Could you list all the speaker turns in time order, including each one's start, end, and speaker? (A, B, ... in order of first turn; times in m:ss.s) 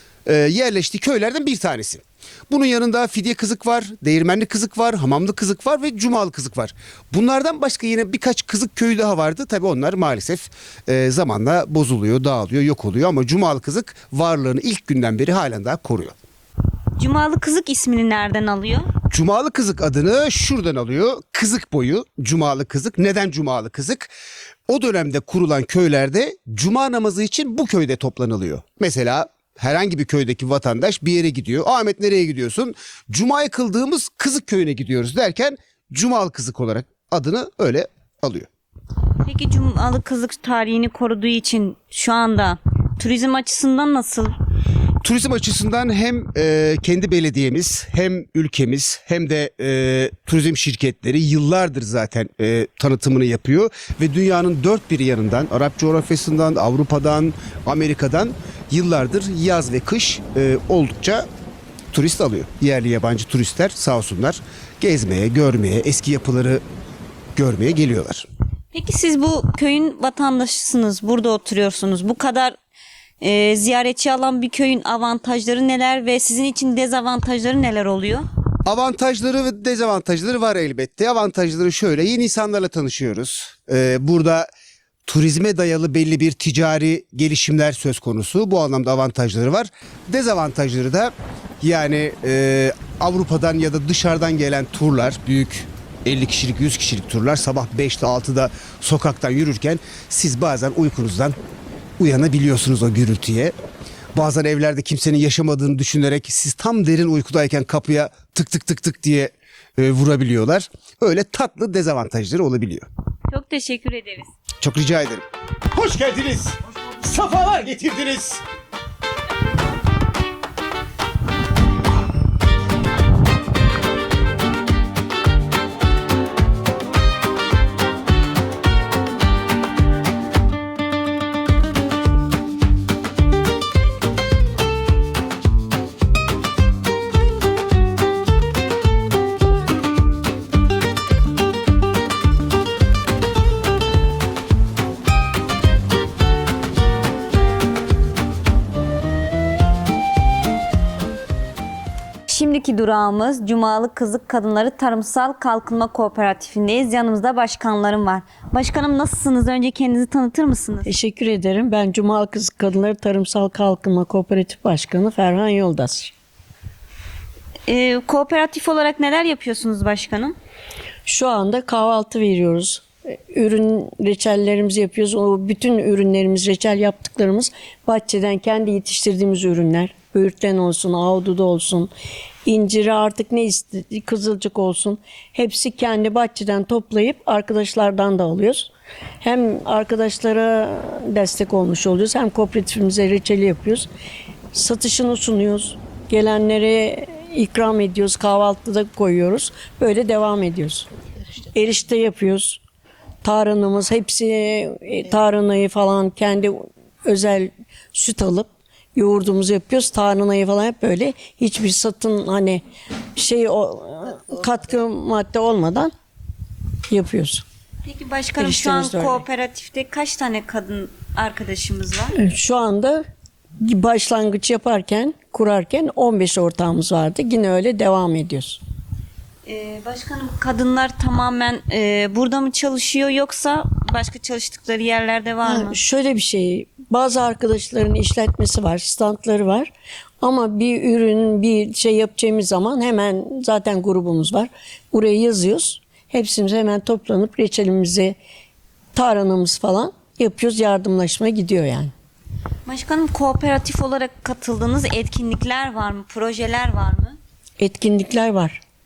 0:00.2-0:16.1 A
0:17.0-0:18.9 B
0:19.1-0:24.1 A
0:24.7-0:38.5 A
0:39.2-0:44.3 B
0:45.0-1:01.2 A
1:01.9-1:06.6 A
1:07.4-1:08.2 A
1:08.7-1:12.5 B
1:13.2-1:18.2 B
1:18.6-1:24.5 A
1:25.1-1:41.4 A
1:42.0-1:43.5 A
1:44.1-1:52.9 A
1:53.3-1:54.3 B
1:54.6-1:58.4 A
2:32.3-2:40.9 B
2:40.8-2:46.1 C
2:47.7-2:50.3 B
2:51.1-3:01.9 C
3:02.4-3:08.7 C
3:09.2-3:13.9 C
3:14.5-3:20.9 C
3:21.5-3:22.6 C
3:23.2-3:32.6 C
3:33.2-3:35.9 C
3:36.9-3:37.4 C
3:37.8-3:42.2 B
3:38.4-3:39.2 C
3:42.2-3:43.0 C
3:43.6-3:48.6 C
3:49.4-3:55.8 B
3:55.4-4:08.2 C
4:08.9-4:11.9 C
4:12.6-4:17.2 B
4:17.6-4:18.6 C